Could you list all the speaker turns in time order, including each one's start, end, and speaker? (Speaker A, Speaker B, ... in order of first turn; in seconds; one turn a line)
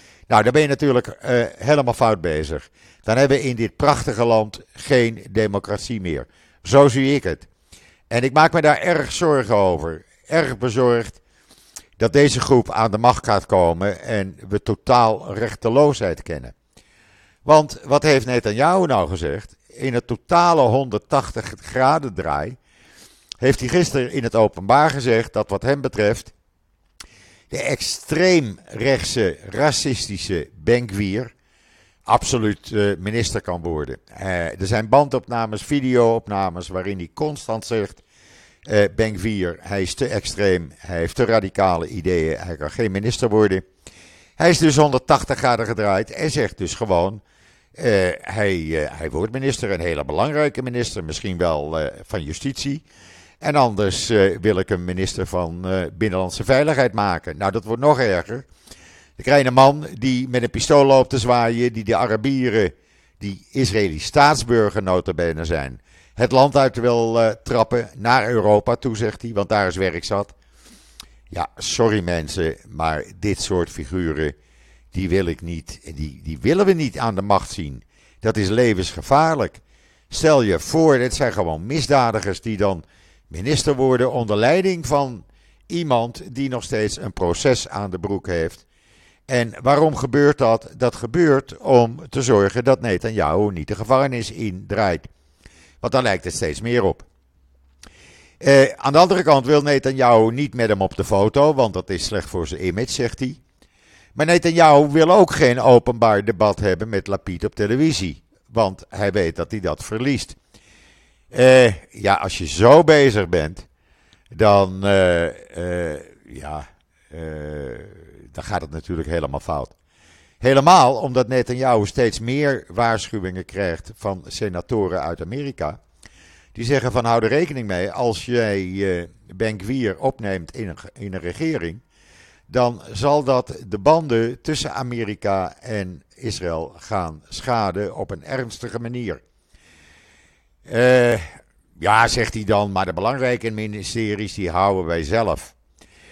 Speaker A: 0.3-7.5
Speaker A: 8.1-11.2
Speaker A: 12.0-16.5
Speaker A: 17.4-22.6
Speaker A: 23.4-26.3
Speaker A: 27.5-31.3
Speaker A: 32.1-38.0
Speaker A: 38.6-43.6
Speaker A: 44.4-47.2
Speaker A: 47.8-52.8
Speaker A: 53.4-58.5
Speaker A: 59.2-70.3
Speaker A: 71.3-74.3
Speaker A: 74.9-88.6
Speaker A: 89.3-95.1
Speaker A: 95.8-97.0
Speaker A: 98.4-103.4
Speaker A: 104.1-110.4
Speaker A: 111.3-113.7
Speaker A: 114.3-119.7
Speaker A: 120.4-125.8
Speaker A: 126.5-131.8
Speaker A: 132.5-139.2
Speaker A: 140.7-145.5